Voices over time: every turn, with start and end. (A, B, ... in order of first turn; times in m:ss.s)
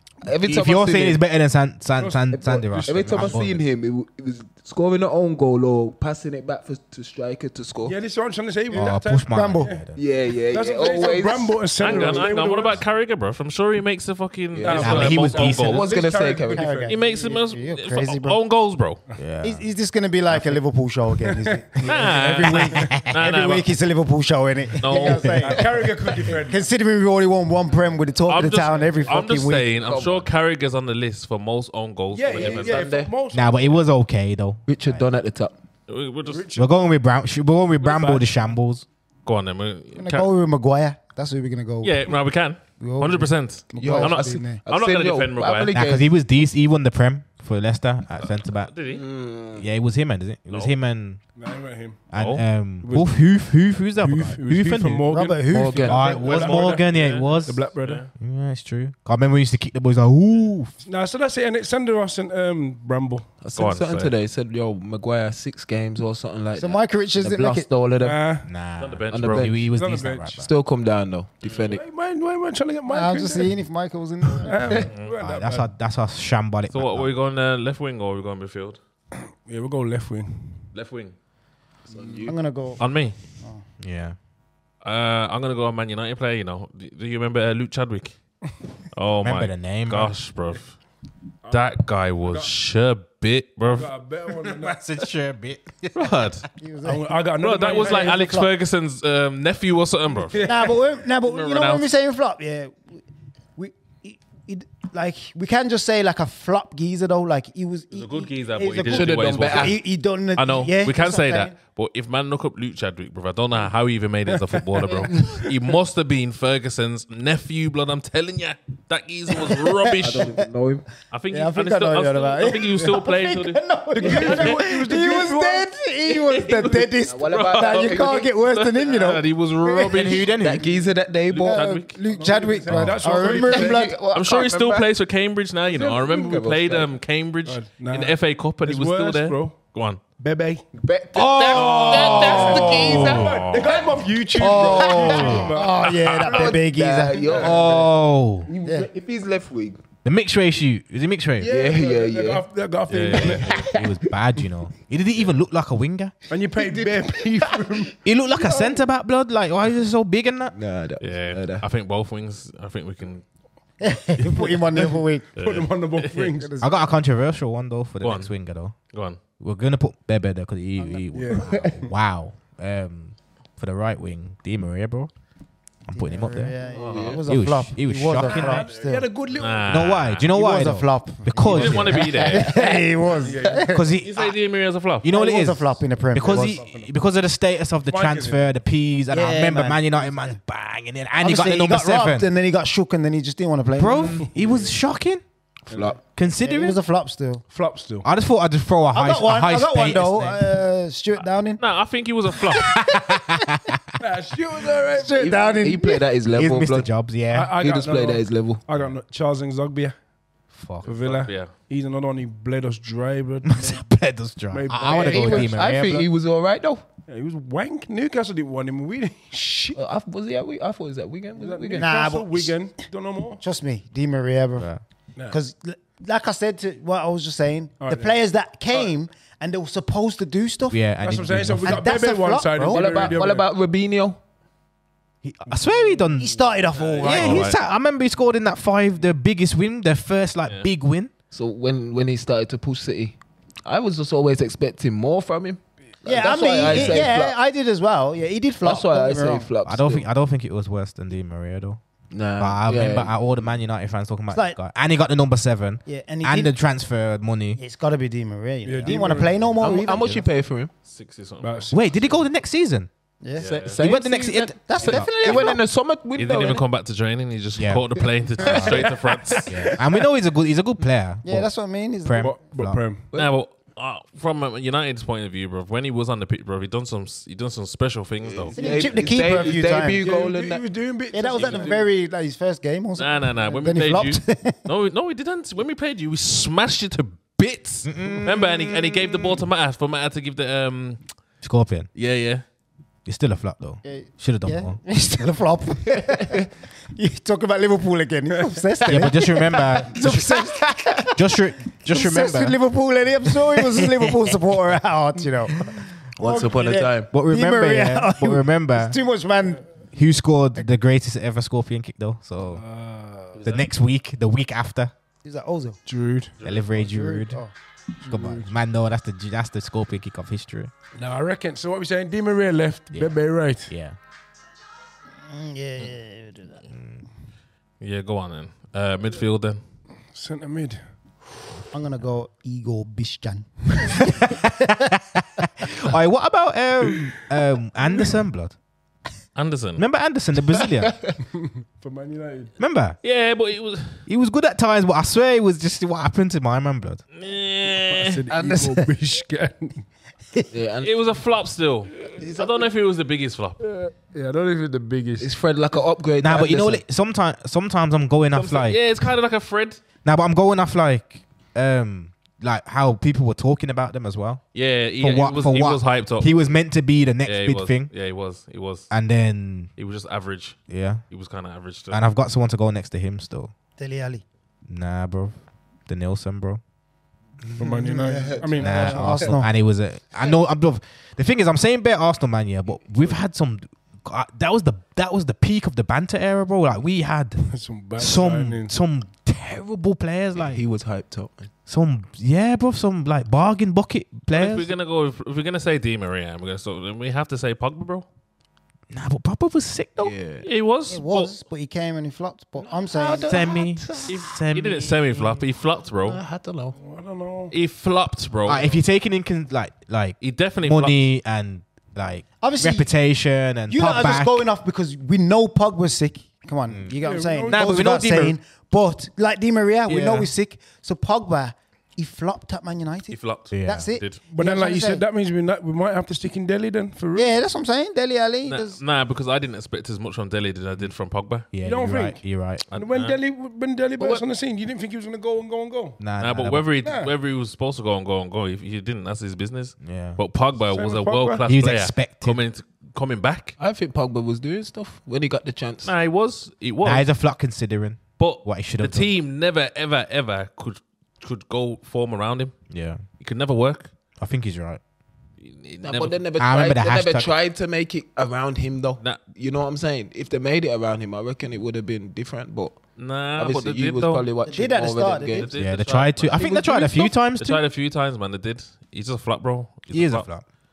0:00.2-0:01.2 A
0:00.5-0:03.6 B
0:02.0-0:03.4 C
0:02.3-0:08.0 A
0:07.8-0:09.9 C
0:08.7-0:10.0 B
0:09.3-0:09.8 D
0:09.9-0:12.3 A
0:10.5-0:12.8 C
0:11.8-0:15.9 E
0:14.5-0:16.8 A
0:14.6-0:17.0 C
0:14.7-0:15.8 B
0:16.5-0:18.4 D
0:16.9-0:19.0 E
0:19.2-0:19.6 B
0:19.4-0:29.7 D
0:21.4-0:22.6 C
0:21.8-0:23.7 E
0:22.7-0:23.2 B
0:24.8-0:25.6 E
0:24.9-0:26.7 C
0:28.3-0:32.9 E
0:29.8-0:30.3 A
0:32.1-0:33.8 C
0:32.3-0:33.1 A
0:33.3-0:34.6 B
0:34.6-0:35.6 A
0:35.9-0:36.5 E
0:36.2-0:36.8 C
0:36.6-0:38.8 B
0:37.8-0:38.3 E
0:39.2-0:40.3 E
0:40.0-0:42.1 D
0:41.8-0:45.8 E
0:42.8-0:44.6 D
0:43.8-0:46.1 A
0:45.7-0:48.7 B
0:48.2-0:49.0 E
0:48.9-0:49.7 A
0:49.6-0:51.2 B
0:50.5-0:50.7 E
0:51.4-0:52.0 C
0:52.1-0:55.1 B
0:52.1-0:52.4 E
0:52.8-0:53.3 C
0:54.0-0:58.0 C
0:55.1-0:56.2 D
0:55.5-0:56.1 A
0:55.9-1:00.7 B
0:56.2-0:58.1 E
1:00.8-1:03.3 C
1:03.4-1:08.2 A
1:03.6-1:04.1 E
1:06.6-1:07.7 D
1:08.0-1:08.5 C
1:08.4-1:10.5 B
1:08.8-1:09.5 E
1:09.1-1:09.7 A
1:09.7-1:10.4 C
1:10.4-1:11.8 A
1:11.4-1:11.8 E
1:11.7-1:13.5 C
1:12.9-1:14.9 D
1:14.3-1:15.7 C
1:15.2-1:17.1 B
1:16.7-1:18.8 E
1:19.4-1:20.6 C
1:20.7-1:21.1 E
1:21.9-1:22.4 A
1:21.9-1:22.3 C
1:22.2-1:22.8 D
1:22.8-1:23.2 E
1:23.8-1:24.2 B
1:24.8-1:28.2 E
1:28.9-1:30.8 E
1:29.2-1:30.1 B
1:31.5-1:33.9 E
1:32.2-1:32.5 C
1:33.7-1:34.8 C
1:34.5-1:36.2 B
1:35.9-1:36.4 E
1:36.6-1:38.5 D
1:36.8-1:38.2 C
1:37.4-1:40.7 E
1:40.1-1:40.8 C
1:40.4-1:43.0 D
1:41.2-1:41.9 E
1:43.6-1:51.6 D
1:47.9-1:49.8 E
1:48.9-1:49.8 A
1:50.4-2:00.3 E
1:54.3-1:55.5 C
1:59.3-2:00.5 D
2:00.0-2:00.9 A
2:01.1-2:04.6 E
2:01.3-2:10.2 D
2:04.0-2:05.7 C
2:06.1-2:10.3 E
2:07.0-2:08.2 A
2:09.9-2:10.7 B
2:10.4-2:11.7 A
2:11.3-2:12.0 E
2:11.3-2:14.0 D
2:12.1-2:13.9 C
2:12.7-2:13.0 B
2:13.1-2:14.9 A
2:14.1-2:20.0 E
2:15.7-2:16.9 A
2:17.4-2:19.6 C
2:20.2-2:20.6 C
2:20.7-2:23.8 A
2:21.1-2:23.2 B
2:21.6-2:23.8 E
2:21.6-2:26.6 C
2:24.4-2:27.4 D
2:24.5-2:25.5 A
2:25.1-2:25.5 B
2:25.8-2:26.5 E
2:26.2-2:29.8 A
2:27.2-2:27.6 C
2:27.4-2:28.5 B
2:28.6-2:28.9 D
2:30.0-2:31.5 B
2:31.4-2:33.7 C
2:31.4-2:32.4 A
2:32.9-2:33.7 E
2:33.4-2:34.0 A
2:33.5-2:36.1 B
2:36.3-2:37.9 C
2:36.6-2:37.9 A
2:38.0-2:40.6 B
2:38.4-2:38.7 A
2:40.5-2:41.6 A
2:41.0-2:43.2 E
2:43.8-2:45.3 D
2:44.4-2:46.5 C
2:45.4-2:46.3 E
2:46.4-2:46.9 D
2:46.6-2:48.8 B
2:48.0-2:48.3 E
2:48.9-2:49.2 E
2:49.4-2:55.1 B
2:50.8-2:51.1 D
2:51.1-2:51.9 C
2:55.9-2:56.6 B
2:55.9-2:59.1 D
2:56.7-2:57.2 E
2:56.7-2:57.2 A
2:57.2-2:58.7 B
2:58.2-3:00.0 C
2:59.3-3:00.3 E
2:59.7-3:02.4 B
3:00.3-3:03.9 D
3:01.4-3:02.6 E
3:02.2-3:02.7 A
3:03.2-3:03.7 C
3:03.7-3:04.4 B
3:04.0-3:05.1 E
3:05.0-3:12.3 B
3:05.1-3:06.6 D
3:06.2-3:06.9 C
3:07.9-3:08.4 C
3:09.1-3:10.4 D
3:11.2-3:14.2 D
3:13.8-3:15.2 B
3:14.3-3:14.7 C
3:15.7-3:16.0 A
3:15.7-3:16.0 C
3:16.1-3:16.8 B
3:16.4-3:17.4 D
3:17.5-3:18.1 C
3:18.0-3:20.4 B
3:18.9-3:21.6 D
3:21.6-3:22.7 E
3:22.5-3:23.4 D
3:22.6-3:23.8 B
3:24.0-3:25.6 C
3:24.9-3:26.1 D
3:25.1-3:26.9 A
3:26.3-3:27.6 B
3:27.3-3:30.0 C
3:27.6-3:28.6 A
3:30.5-3:31.0 B
3:30.8-3:33.8 C
3:30.9-3:31.5 E
3:33.4-3:36.1 B
3:34.5-3:35.8 C
3:34.9-3:36.8 A
3:37.1-3:39.8 C
3:39.7-3:42.0 A
3:41.4-3:43.4 C
3:41.8-3:42.6 D
3:43.4-3:44.7 D
3:45.3-3:50.8 D
3:47.8-3:48.2 C
3:50.7-3:51.9 B
3:51.0-3:53.5 C
3:51.6-3:53.2 D
3:52.7-3:54.2 A
3:55.2-3:56.4 B
3:56.1-3:57.5 D
3:56.8-3:57.6 E
3:57.0-4:01.1 B
4:01.3-4:07.4 A
4:06.0-4:09.5 D
4:06.6-4:07.1 B
4:08.6-4:10.1 A
4:09.6-4:11.8 B
4:12.1-4:13.1 A
4:12.4-4:17.6 B
4:14.3-4:14.6 D
4:15.9-4:16.5 D
4:17.6-4:20.2 D
4:18.6-4:19.5 C
4:19.6-4:20.7 A
4:20.8-4:21.7 E
4:21.4-4:22.2 C
4:21.7-4:22.9 B
4:23.2-4:23.6 D
4:23.4-4:23.8 E
4:23.4-4:26.6 A
4:23.8-4:25.4 B
4:24.7-4:25.6 D
4:26.2-4:29.7 E
4:27.6-4:27.9 B
4:28.4-4:28.9 B
4:28.4-4:29.6 A
4:29.5-4:31.5 B
4:31.2-4:32.4 D
4:32.0-4:32.8 B
4:32.2-4:33.1 C
4:33.1-4:39.0 E
4:38.2-4:40.7 A
4:38.6-4:40.1 D
4:40.0-4:41.9 C
4:41.1-4:44.6 D
4:43.0-4:51.0 E
4:47.8-4:49.4 B
4:51.4-4:51.9 B
4:51.9-4:52.4 E
4:53.1-4:54.8 B
4:53.8-5:05.6 D
4:58.9-5:02.6 B
5:03.8-5:04.1 B
5:05.6-5:06.5 B
5:06.2-5:07.1 A
5:06.2-5:09.6 D
5:07.0-5:09.0 B
5:09.9-5:12.6 B
5:12.5-5:13.4 C
5:13.4-5:13.6 E
5:13.4-5:14.9 B
5:15.2-5:15.8 D
5:15.9-5:16.4 C
5:16.4-5:16.7 E
5:16.4-5:17.4 B
5:16.7-5:17.5 D
5:18.0-5:20.7 B
5:18.1-5:18.5 C
5:21.0-5:23.7 C
5:23.7-5:24.0 B
5:25.2-5:26.6 D
5:26.7-5:27.0 B
5:27.8-5:29.6 E
5:30.1-5:30.8 C
5:31.7-5:34.5 D
5:34.0-5:38.6 B
5:39.4-5:39.8 E
5:39.8-5:41.0 B
5:40.8-5:41.2 A
5:41.3-5:42.5 C
5:42.6-5:43.0 B
5:43.0-5:44.0 E
5:44.1-5:47.0 B
5:47.1-5:48.2 E
5:47.9-5:49.8 C
5:48.3-5:48.9 D
5:50.5-5:50.9 A
5:50.8-5:53.6 E
5:52.1-5:52.6 A
5:53.6-5:55.4 C
5:55.2-5:56.8 A
5:56.2-5:58.8 B
5:58.3-5:59.8 E
6:00.0-6:04.4 B
6:04.5-6:06.4 E
6:05.0-6:07.9 B
6:07.2-6:08.9 E
6:08.9-6:09.7 B
6:09.8-6:10.6 E
6:10.7-6:11.0 B
6:11.1-6:12.1 E
6:11.9-6:13.5 B
6:13.8-6:14.2 D
6:14.7-6:15.4 B
6:15.9-6:16.6 B
6:17.6-6:19.2 C
6:18.1-6:19.5 D
6:18.2-6:19.1 A
6:18.6-6:30.6 B
6:27.5-6:28.7 C
6:30.4-6:31.5 A
6:31.7-6:34.7 B
6:34.3-6:38.1 E
6:38.9-6:40.1 B
6:40.0-6:40.4 A
6:40.4-6:41.3 E
6:40.9-6:43.5 D
6:42.7-6:44.2 A
6:43.2-6:45.3 B
6:44.1-6:46.2 E
6:46.0-6:46.8 A
6:46.8-6:47.5 C
6:47.5-6:48.8 E
6:48.4-6:54.4 B
6:50.2-6:51.1 E
6:52.4-6:52.9 D
6:53.7-7:05.0 D
6:57.0-6:57.7 C
6:57.5-6:58.4 B
6:59.9-7:00.3 B
7:03.1-7:04.2 E
7:03.5-7:03.9 B
7:04.3-7:07.3 C
7:07.1-7:08.8 D
7:08.4-7:11.5 E
7:11.5-7:12.6 B
7:11.6-7:12.2 C
7:12.7-7:13.2 E
7:12.7-7:16.0 C
7:16.0-7:16.7 B
7:16.2-7:23.6 E
7:16.8-7:17.1 C
7:19.8-7:20.2 B
7:20.7-7:21.4 C
7:21.4-7:22.4 B
7:23.6-7:25.9 A
7:25.8-7:27.1 E
7:26.8-7:29.1 B
7:28.2-7:32.6 E
7:32.7-7:33.0 B
7:33.2-7:33.9 E
7:34.2-7:34.8 B
7:35.4-7:36.2 E
7:35.8-7:42.8 A
7:36.4-7:37.3 B
7:43.0-7:44.3 E
7:43.4-7:45.6 A
7:44.4-7:45.5 D
7:45.3-7:46.4 E
7:45.6-7:47.6 B
7:46.4-7:47.1 A
7:47.3-7:50.3 E
7:49.9-7:50.4 B